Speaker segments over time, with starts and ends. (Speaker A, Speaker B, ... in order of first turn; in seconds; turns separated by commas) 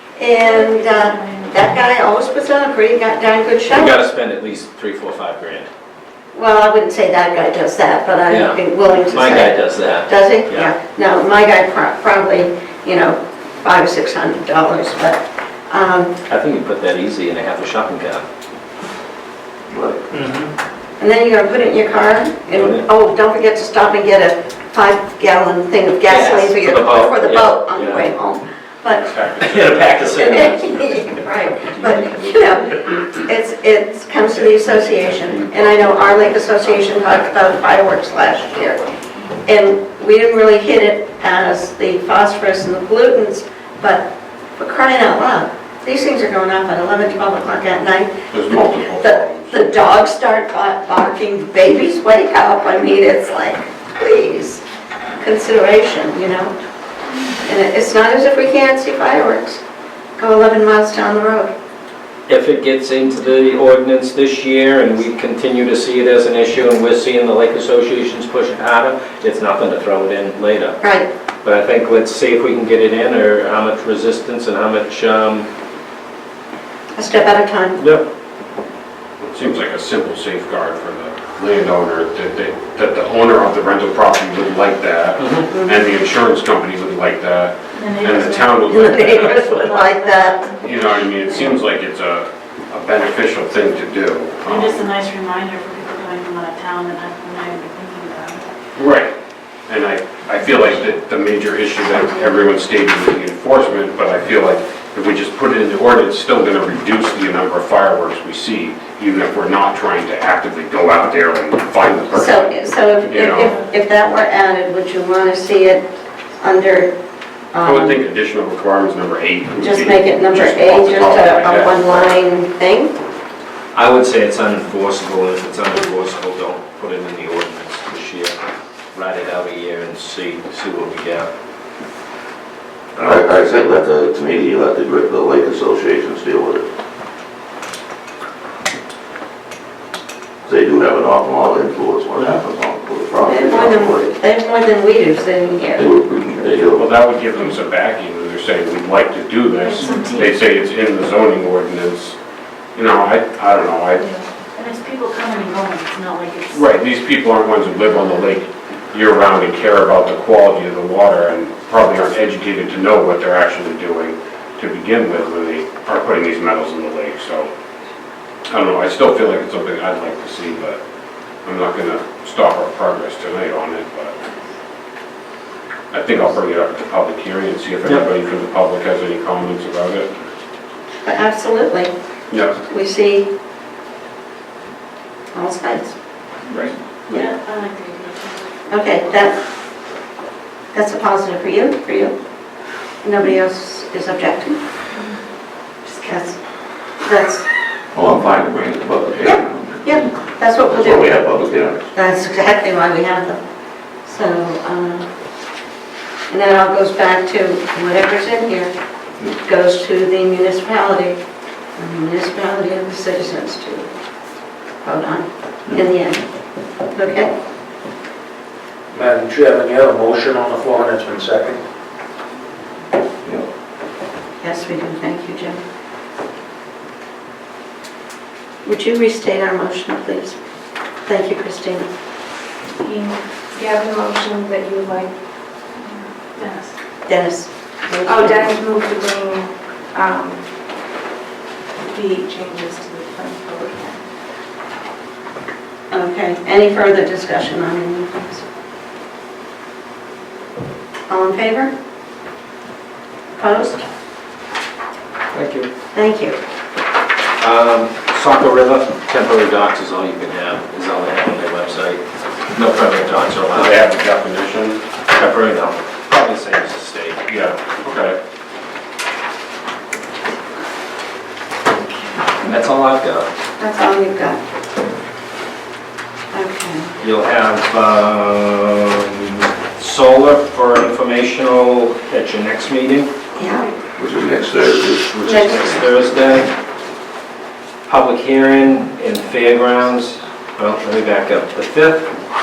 Speaker A: 0.1-3.9, Speaker B: 0.4-1.8, Speaker C: 3.7-5.7, Speaker A: 6.3-16.2, Speaker C: 8.2-10.8, Speaker C: 16.3-18.2, Speaker D: 19.7-20.0, Speaker E: 20.1-20.5, Speaker A: 21.0-29.1, Speaker C: 22.5-22.8, Speaker C: 26.1-28.1, Speaker F: 28.9-30.4, Speaker C: 29.4-32.5, Speaker A: 30.1-38.9, Speaker C: 34.5-36.2, Speaker A: 39.5-54.6, Speaker F: 48.3-49.6, Speaker A: 55.2-56.5, Speaker A: 57.4-59.6, Speaker A: 60.2-61.5, Speaker C: 62.3-70.8, Speaker A: 70.8-71.1, Speaker C: 71.4-75.5, Speaker A: 77.0-77.8, Speaker C: 77.8-78.0, Speaker F: 79.2-89.5, Speaker C: 85.2-85.5, Speaker A: 85.5-85.8, Speaker B: 87.7-90.8, Speaker A: 88.7-90.6, Speaker F: 90.6-94.8, Speaker B: 94.5-98.4, Speaker F: 98.8-99.1, Speaker F: 99.7-113.5, Speaker A: 112.1-115.9, Speaker A: 116.4-116.9, Speaker A: 117.5-118.0, Speaker F: 117.6-122.2, Speaker A: 119.6-122.9, Speaker C: 123.7-128.3, Speaker C: 128.9-131.3, Speaker D: 133.0-136.7, Speaker D: 140.4-144.1, Speaker A: 143.2-145.9, Speaker D: 145.8-146.9, Speaker F: 146.8-152.2, Speaker B: 149.6-150.4, Speaker F: 152.7-154.1, Speaker B: 154.5-156.6, Speaker F: 156.5-167.5, Speaker F: 168.5-170.8, Speaker F: 171.4-174.1, Speaker F: 175.9-180.2, Speaker A: 181.0-181.9, Speaker F: 182.3-182.6, Speaker A: 182.7-183.3, Speaker A: 185.3-185.9, Speaker F: 186.5-187.3, Speaker B: 186.6-188.4, Speaker A: 188.7-189.3, Speaker A: 190.7-192.1, Speaker A: 193.0-194.6, Speaker A: 196.0-196.4, Speaker A: 197.0-197.4, Speaker D: 197.9-200.0, Speaker A: 199.2-201.2, Speaker D: 200.7-201.9, Speaker A: 201.9-203.4, Speaker A: 204.0-205.1, Speaker A: 206.3-208.7, Speaker A: 209.4-211.2, Speaker A: 211.8-213.9, Speaker A: 214.8-216.2, Speaker A: 216.9-217.3, Speaker E: 218.9-221.6, Speaker A: 224.4-225.6, Speaker A: 228.6-230.4, Speaker A: 231.1-231.9, Speaker G: 232.8-235.1, Speaker B: 235.9-236.8, Speaker A: 237.1-238.6, Speaker G: 238.0-240.4, Speaker G: 241.8-244.0, Speaker A: 245.9-248.4, Speaker A: 251.1-251.7, Speaker A: 253.4-253.8, Speaker C: 255.3-255.7, Speaker A: 255.9-256.4, Speaker C: 257.4-262.0, Speaker C: 262.5-263.8, Speaker F: 263.5-264.8, Speaker C: 265.1-267.3, Speaker F: 267.3-268.2, Speaker C: 272.4-273.3, Speaker A: 273.6-274.4, Speaker A: 276.3-276.9, Speaker C: 277.0-283.1, Speaker A: 283.4-283.7, Speaker D: 284.0-285.1, Speaker C: 285.1-286.5, Speaker A: 285.2-285.9, Speaker C: 287.9-292.1